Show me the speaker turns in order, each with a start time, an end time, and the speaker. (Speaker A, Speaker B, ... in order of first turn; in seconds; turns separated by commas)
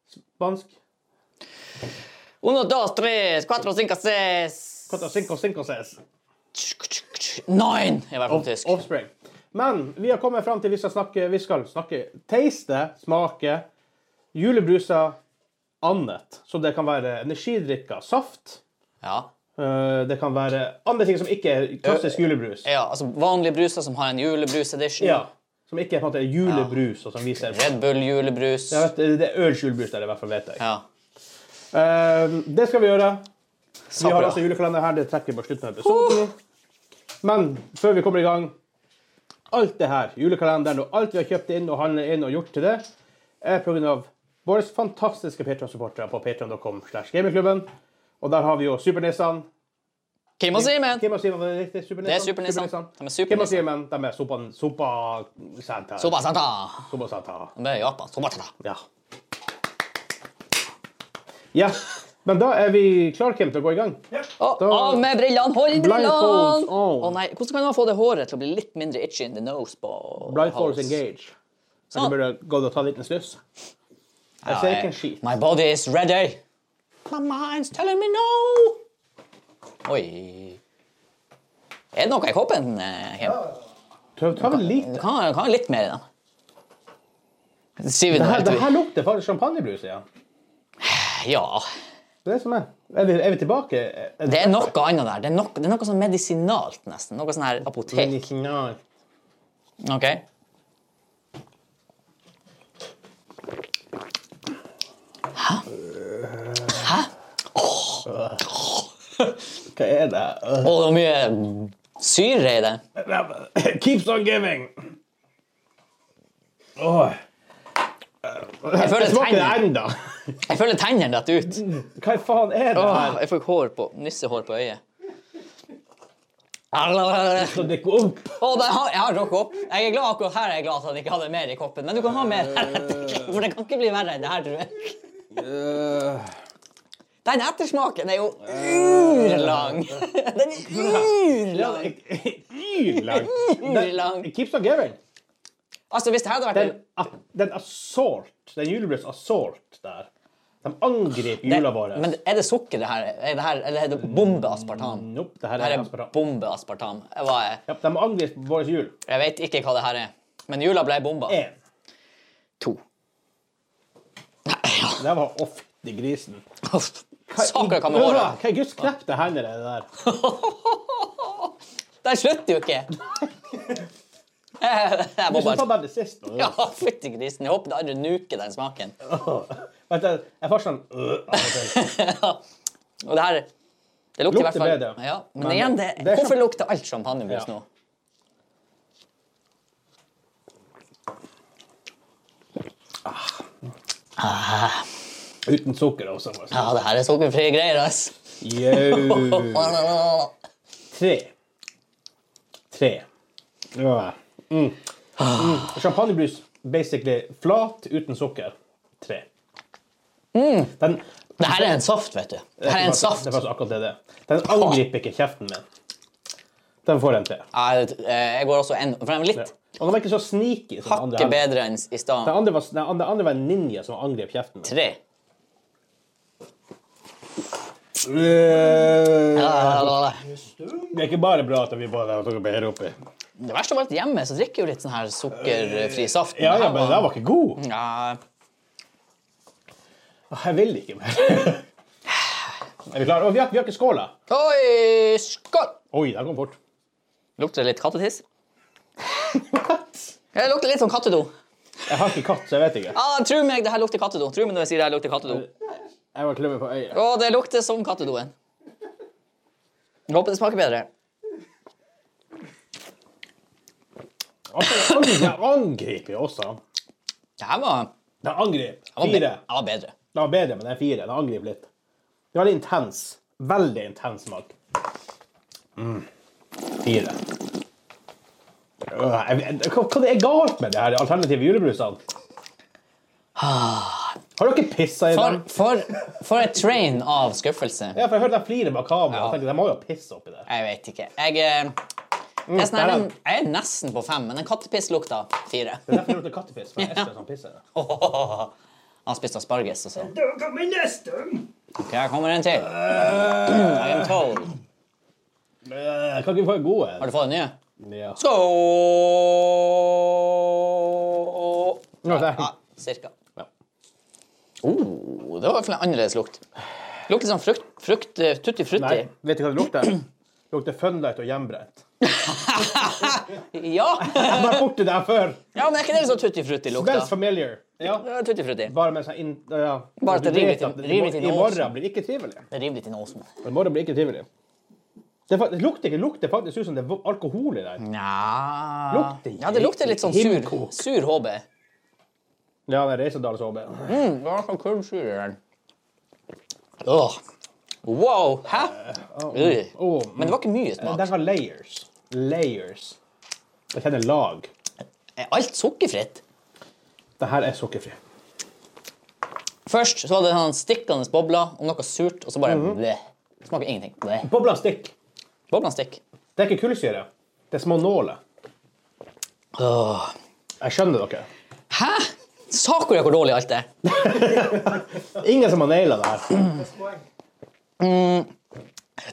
Speaker A: 0.3-0.7, Speaker B: 2.4-5.2, Speaker A: 4.9-6.0, Speaker B: 6.5-8.8, Speaker A: 8.3-13.7, Speaker A: 14.3-15.2, Speaker A: 15.8-18.6, Speaker B: 19.0-19.3, Speaker A: 19.6-22.6, Speaker B: 21.8-25.2, Speaker A: 25.0-27.8, Speaker B: 26.4-26.8, Speaker B: 27.4-28.9, Speaker A: 28.7-30.6, Speaker B: 30.6-30.8, Speaker A: 31.7-33.2, Speaker B: 33.9-34.4, Speaker A: 34.0-36.3, Speaker B: 35.8-36.2, Speaker A: 37.2-38.5, Speaker A: 39.5-42.9, Speaker A: 43.4-47.7, Speaker A: 48.2-49.5, Speaker B: 50.4-51.0, Speaker A: 50.5-56.2, Speaker B: 52.0-53.6, Speaker B: 56.0-56.9, Speaker A: 56.9-57.5, Speaker B: 57.5-58.5, Speaker A: 61.5-64.0, Speaker B: 64.2-71.0, Speaker A: 64.6-65.0, Speaker A: 65.7-67.2, Speaker A: 70.2-71.3, Speaker A: 71.9-73.4, Speaker B: 74.4-76.4, Speaker A: 74.5-75.2, Speaker B: 77.1-78.8, Speaker B: 79.8-80.6, Speaker B: 81.9-83.5, Speaker A: 84.2-85.0, Speaker B: 84.4-86.0, Speaker B: 87.8-88.7, Speaker A: 88.1-90.0, Speaker B: 90.8-91.7, Speaker A: 92.2-94.7, Speaker B: 94.2-98.3, Speaker A: 97.9-98.8, Speaker B: 99.8-100.2, Speaker B: 105.3-105.6, Speaker A: 106.0-106.8, Speaker B: 106.7-108.8, Speaker A: 108.1-108.4, Speaker A: 109.7-110.8, Speaker B: 110.6-112.8, Speaker A: 113.0-114.7, Speaker A: 116.8-117.2, Speaker A: 118.3-120.4, Speaker B: 118.7-119.7, Speaker B: 120.5-121.7, Speaker A: 121.5-123.2, Speaker B: 122.7-124.8, Speaker B: 126.7-127.7, Speaker A: 127.3-128.3, Speaker B: 128.4-135.0, Speaker A: 135.4-136.2, Speaker B: 137.2-141.9, Speaker A: 140.7-145.0, Speaker B: 143.0-144.3, Speaker B: 145.9-146.8, Speaker A: 146.5-150.1, Speaker A: 150.6-152.2, Speaker B: 151.4-157.6, Speaker A: 154.0-156.1, Speaker A: 157.7-158.9, Speaker B: 159.1-161.4, Speaker A: 161.3-161.6, Speaker B: 164.5-165.1, Speaker A: 165.0-166.4, Speaker B: 166.7-168.4, Speaker A: 167.3-169.9, Speaker B: 170.0-171.5, Speaker B: 172.0-172.9, Speaker B: 174.6-175.7, Speaker A: 175.3-176.7, Speaker B: 176.4-178.9, Speaker A: 179.0-181.8, Speaker B: 181.3-182.4, Speaker B: 183.0-183.5, Speaker B: 184.2-187.6, Speaker A: 184.3-186.4, Speaker A: 193.1-193.4, Speaker B: 194.2-194.8, Speaker A: 195.4-196.7, Speaker B: 196.5-200.3, Speaker A: 198.4-199.8, Speaker A: 200.9-201.3, Speaker A: 202.7-203.1, Speaker A: 203.7-209.3, Speaker B: 205.2-205.7, Speaker B: 210.3-210.7, Speaker A: 210.8-211.6, Speaker B: 211.4-213.4, Speaker A: 212.6-215.6, Speaker B: 214.4-214.8, Speaker A: 216.8-217.4, Speaker B: 217.5-219.5, Speaker A: 219.3-221.4, Speaker B: 220.8-222.4, Speaker A: 222.2-224.7, Speaker B: 224.6-225.0, Speaker A: 228.0-229.9, Speaker B: 229.3-230.3, Speaker A: 230.9-232.9, Speaker B: 233.4-238.2, Speaker A: 235.7-237.6, Speaker A: 240.3-241.6, Speaker A: 242.9-244.1, Speaker B: 244.3-245.8, Speaker A: 245.9-246.6, Speaker B: 247.4-248.2, Speaker A: 249.3-249.8, Speaker B: 250.3-251.3, Speaker A: 251.9-252.9, Speaker B: 252.9-255.4, Speaker A: 256.1-257.0, Speaker B: 256.9-258.3, Speaker B: 260.1-260.9, Speaker A: 264.5-266.6, Speaker B: 267.4-267.9, Speaker A: 268.2-269.4, Speaker B: 268.9-269.9, Speaker A: 270.1-271.7, Speaker A: 272.3-274.5, Speaker A: 275.8-276.1, Speaker A: 276.8-277.2, Speaker A: 278.9-282.0, Speaker B: 283.4-284.2, Speaker A: 284.4-285.4, Speaker B: 285.1-288.0, Speaker A: 287.9-290.5, Speaker B: 289.1-289.4, Speaker B: 290.5-291.8, Speaker A: 292.5-293.1, Speaker B: 292.5-296.1, Speaker A: 295.9-297.6, Speaker B: 296.8-297.1, Speaker B: 297.8-298.5, Speaker B: 299.1-300.1, Speaker A: 300.3-301.4, Speaker B: 301.8-304.5, Speaker A: 302.7-304.1, Speaker A: 305.6-307.1, Speaker B: 307.0-307.5, Speaker A: 307.8-308.2, Speaker B: 308.2-313.1, Speaker A: 312.0-312.5, Speaker B: 314.6-316.4, Speaker B: 317.1-319.1, Speaker A: 318.8-321.8, Speaker B: 322.0-324.7, Speaker A: 324.0-325.4, Speaker B: 325.5-327.1, Speaker A: 326.7-328.1, Speaker B: 327.8-328.7, Speaker A: 328.6-332.4, Speaker B: 330.0-331.7, Speaker B: 332.5-333.3, Speaker A: 333.4-334.3, Speaker A: 335.3-337.8, Speaker B: 337.8-341.4, Speaker A: 338.9-340.8, Speaker A: 342.7-344.0, Speaker B: 343.9-345.4, Speaker B: 346.8-347.2, Speaker B: 347.8-348.7, Speaker A: 348.5-353.0, Speaker B: 349.3-351.1, Speaker A: 353.7-354.5, Speaker B: 355.2-356.2, Speaker A: 357.2-358.0, Speaker B: 359.7-364.3, Speaker A: 362.4-362.8, Speaker A: 364.2-364.9, Speaker B: 365.5-366.0, Speaker A: 366.4-368.2, Speaker B: 369.6-370.1, Speaker A: 370.6-371.3, Speaker B: 371.7-373.7, Speaker A: 373.8-376.5, Speaker B: 377.8-378.3